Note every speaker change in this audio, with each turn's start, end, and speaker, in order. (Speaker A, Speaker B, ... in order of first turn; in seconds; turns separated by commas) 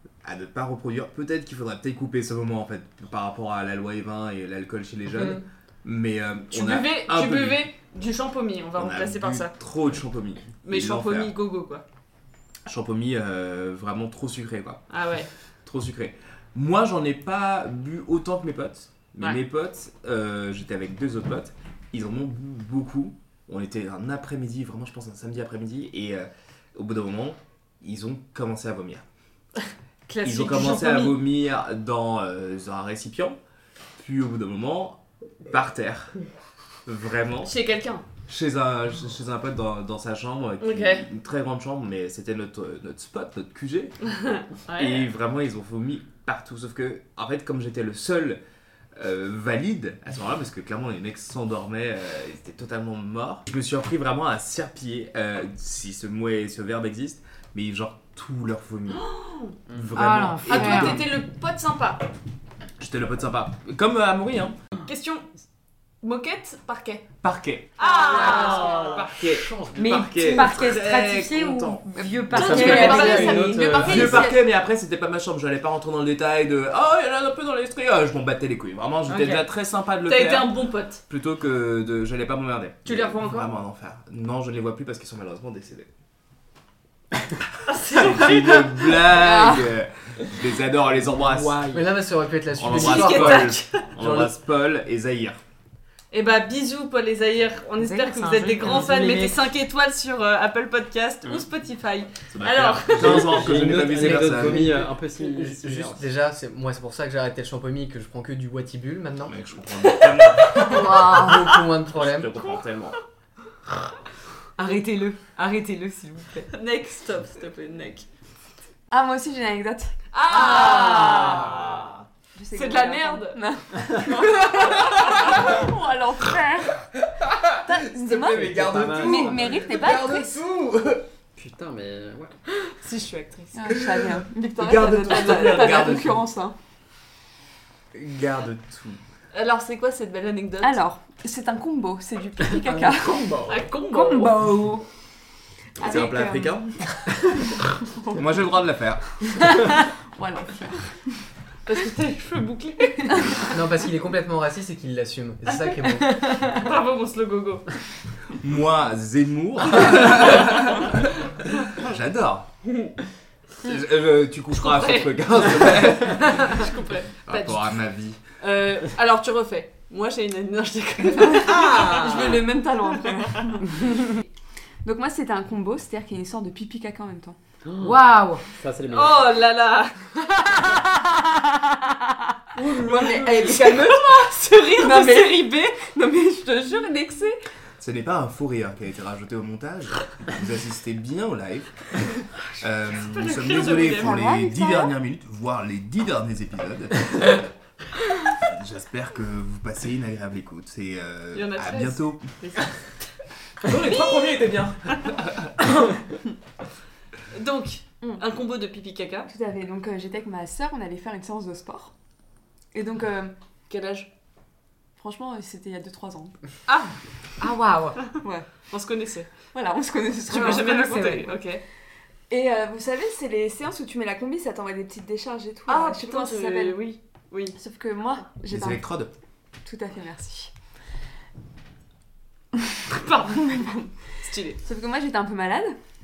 Speaker A: 0.2-7.7, Speaker B: 6.5-9.6, Speaker A: 8.8-11.3, Speaker B: 10.6-11.8, Speaker A: 12.7-14.8, Speaker B: 14.9-15.3, Speaker A: 15.6-29.0, Speaker B: 30.1-31.2, Speaker A: 30.2-33.4, Speaker A: 34.0-36.2, Speaker A: 36.9-37.5, Speaker B: 37.4-38.0, Speaker A: 38.3-44.0, Speaker B: 40.6-41.1, Speaker B: 44.2-45.1, Speaker A: 44.7-48.4, Speaker A: 48.9-59.1, Speaker B: 58.9-59.5, Speaker A: 59.7-61.1, Speaker C: 59.9-61.1, Speaker B: 60.5-62.1, Speaker A: 62.8-64.6, Speaker B: 64.8-65.3, Speaker B: 66.0-67.1, Speaker A: 67.2-67.8, Speaker B: 67.8-69.0, Speaker D: 67.8-68.9, Speaker E: 68.1-70.1, Speaker A: 68.4-85.9, Speaker C: 69.7-73.9, Speaker E: 72.3-74.3, Speaker B: 72.3-74.3, Speaker D: 72.4-74.3, Speaker C: 79.1-79.5, Speaker B: 80.0-81.0, Speaker B: 82.8-83.5, Speaker B: 87.7-89.0, Speaker A: 87.8-91.7, Speaker E: 91.0-91.9, Speaker F: 91.7-94.3, Speaker A: 92.5-95.4, Speaker B: 92.7-93.9, Speaker B: 96.1-103.6, Speaker C: 97.8-99.2, Speaker E: 98.7-99.3, Speaker A: 102.3-104.9, Speaker E: 102.9-106.0, Speaker F: 104.0-109.3, Speaker A: 109.2-111.1, Speaker D: 110.6-111.5, Speaker F: 110.8-112.3, Speaker A: 111.9-113.0, Speaker C: 114.6-116.5, Speaker B: 116.5-118.1, Speaker D: 118.9-121.5, Speaker B: 120.1-121.9, Speaker C: 120.6-121.1, Speaker E: 120.9-121.9, Speaker D: 122.3-126.8, Speaker B: 122.5-123.4, Speaker B: 124.0-125.4, Speaker A: 127.2-131.0, Speaker D: 127.6-130.3, Speaker E: 128.3-129.6, Speaker E: 131.3-132.3, Speaker B: 132.7-133.8, Speaker D: 133.5-136.5, Speaker A: 133.7-136.2, Speaker B: 135.3-135.8, Speaker A: 137.9-139.0, Speaker B: 139.3-140.8, Speaker D: 140.6-143.4, Speaker E: 142.5-143.6, Speaker B: 143.4-144.4, Speaker C: 143.9-144.8, Speaker D: 145.8-146.6, Speaker A: 145.8-147.3, Speaker D: 147.9-148.2, Speaker A: 148.1-149.6, Speaker D: 149.4-150.9, Speaker B: 151.7-153.6, Speaker D: 153.1-153.4, Speaker F: 153.5-156.4, Speaker B: 156.3-157.8, Speaker A: 158.4-162.5, Speaker A: 163.6-166.7, Speaker B: 164.5-167.8, Speaker A: 167.2-168.2, Speaker B: 168.4-173.3, Speaker D: 171.2-174.1, Speaker D: 174.8-177.4, Speaker E: 177.6-177.9, Speaker C: 177.8-178.4, Speaker E: 178.5-179.3, Speaker B: 178.9-179.9, Speaker D: 182.6-187.4, Speaker B: 182.6-185.5, Speaker A: 187.8-191.9, Speaker A: 192.6-197.5, Speaker B: 192.9-194.3, Speaker D: 193.8-194.9, Speaker A: 198.2-202.2, Speaker B: 201.3-202.8, Speaker A: 203.6-204.9, Speaker B: 203.7-205.1, Speaker B: 207.3-209.3, Speaker D: 209.2-211.9, Speaker D: 212.7-213.3, Speaker B: 213.7-214.1, Speaker D: 215.0-216.3, Speaker B: 216.7-216.9, Speaker C: 217.4-218.0, Speaker D: 218.2-218.5, Speaker B: 218.7-219.3, Speaker D: 219.5-221.3, Speaker B: 220.3-221.6, Speaker C: 220.3-221.3, Speaker D: 222.3-226.9, Speaker B: 225.7-227.6, Speaker D: 227.5-228.8, Speaker A: 228.5-229.1, Speaker D: 229.6-230.5, Speaker B: 232.9-234.6, Speaker D: 233.4-233.7, Speaker D: 234.6-235.8